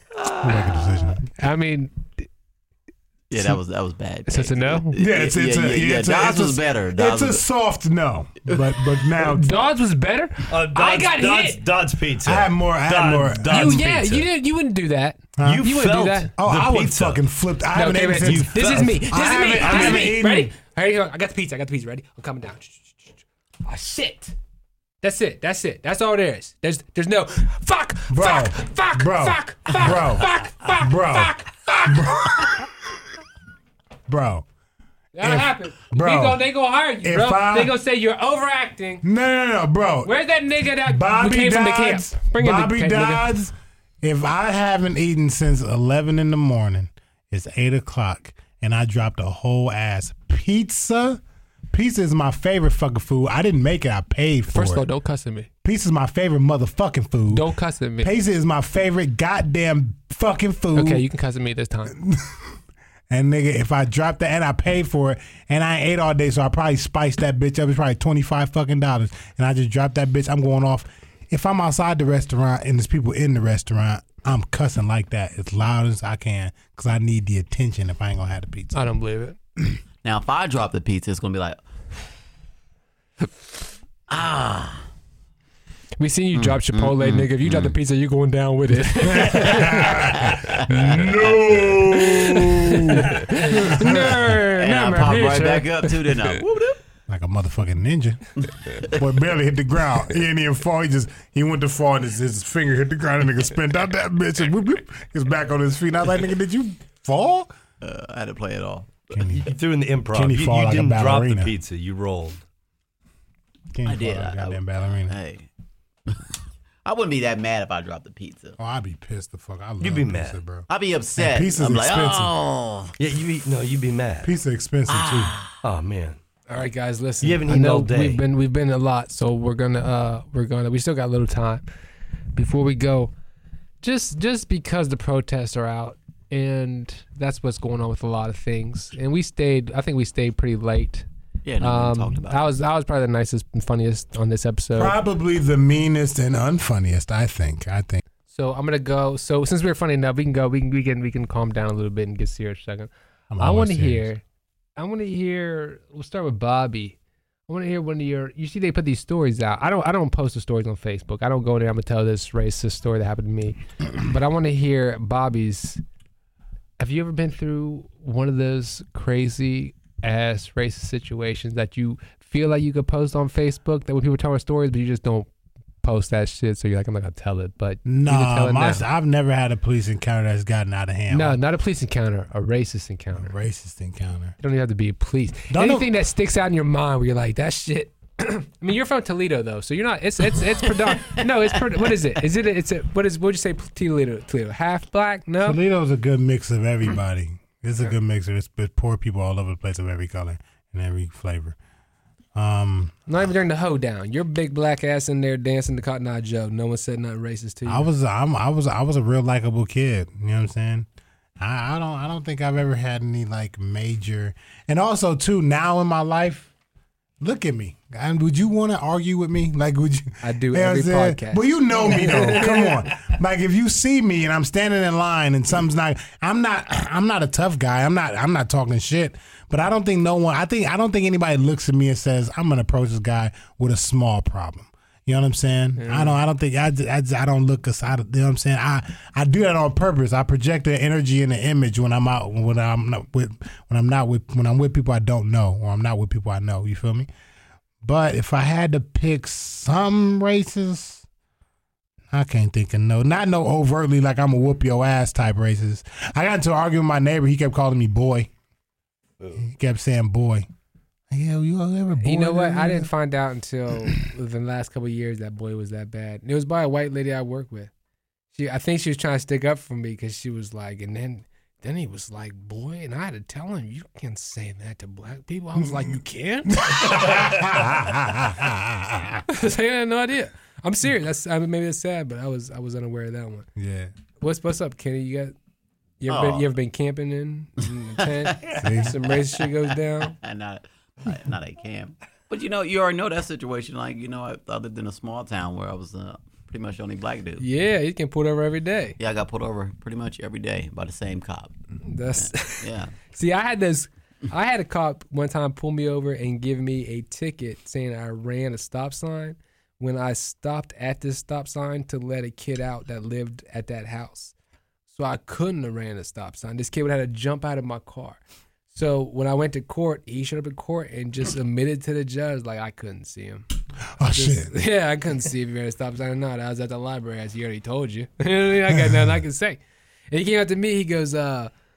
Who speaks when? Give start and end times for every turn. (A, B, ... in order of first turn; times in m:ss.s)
0:00.1-0:01.1 A
0:00.4-0:01.3 B
0:01.4-0:02.3 C
0:03.3-0:07.4 A
0:04.3-0:04.9 C
0:05.0-0:09.6 B
0:09.2-0:11.6 C
0:10.5-0:14.3 D
0:12.2-0:13.9 B
0:13.5-0:16.3 C
0:15.4-0:15.7 B
0:15.4-0:17.2 D
0:16.4-0:20.5 B
0:17.7-0:24.4 C
0:18.2-0:19.0 D
0:19.6-0:20.1 D
0:25.0-0:32.6 C
0:28.1-0:32.7 B
0:34.1-0:34.5 B
0:35.2-0:39.0 C
0:35.2-0:36.4 B
0:37.0-0:37.7 B
0:39.0-0:40.1 B
0:40.0-0:43.3 C
0:40.9-0:51.2 B
0:51.7-0:54.8 B
0:54.5-0:55.5 C
0:55.6-0:57.4 B
0:57.3-0:58.1 C
0:58.0-1:01.0 B
1:00.8-1:01.9 C
1:01.9-1:02.6 B
1:03.1-1:18.8 B
1:18.7-1:19.4 C
1:20.0-1:21.6 A
1:24.1-1:24.8 A
1:26.0-1:30.6 C
1:26.3-1:27.8 A
1:29.1-1:34.4 B
1:29.9-1:31.6 A
1:31.9-1:36.4 C
1:34.4-1:36.8 A
1:37.1-1:47.5 B
1:38.4-1:38.9 A
1:47.8-1:49.1 A
1:49.1-1:49.5 B
1:49.3-1:52.4 D
1:50.1-1:51.5 B
1:53.7-1:55.1 B
1:53.9-1:55.5 A
1:56.8-1:58.6 A
1:58.6-2:02.3 B
1:59.8-2:00.4 D
2:00.7-2:02.9 A
2:03.0-2:04.3 D
2:04.2-2:05.4 B
2:04.9-2:05.6 A
2:05.6-2:06.2 D
2:06.5-2:11.6 C
2:07.2-2:08.2 D
2:12.4-2:13.1 C
2:13.8-2:21.1 C
2:21.4-2:22.5 A
2:21.6-2:24.9 C
2:24.8-2:28.0 B
2:28.3-2:34.2 C
2:33.3-2:34.1 B
2:34.8-2:37.0 C
2:37.5-2:45.8 C
2:46.8-2:55.3 C
2:55.8-2:58.8 C
2:57.9-3:01.4 B
3:01.1-3:03.3 C
3:03.2-3:04.4 B
3:04.4-3:15.6 C
3:05.5-3:05.9 B
3:15.4-3:21.6 B
3:22.4-3:23.1 B
3:23.1-3:27.9 C
3:27.7-3:30.9 B
3:31.4-3:36.5 B
3:37.2-4:07.1 B
3:40.2-3:43.0 C
3:55.8-3:56.2 C
4:07.8-4:11.0 B
4:12.1-4:18.3 B
4:19.4-4:20.5 B
4:21.1-4:22.9 B
4:22.0-4:27.7 C
4:28.3-4:37.6 C
4:36.5-4:39.2 B
4:39.3-4:43.5 C
4:43.6-4:43.9 B
4:44.2-4:45.3 C
4:46.0-4:50.2 C
4:46.1-4:46.5 A
4:48.0-4:48.5 A
4:48.6-4:48.9 B
4:49.1-4:57.4 A
4:57.4-4:59.0 C
4:59.0-5:01.5 A
5:01.9-5:14.3 C
5:02.2-5:02.9 A
5:14.9-5:23.5 C
5:24.0-5:24.5 B
5:24.1-5:31.5 C
5:28.7-5:29.1 B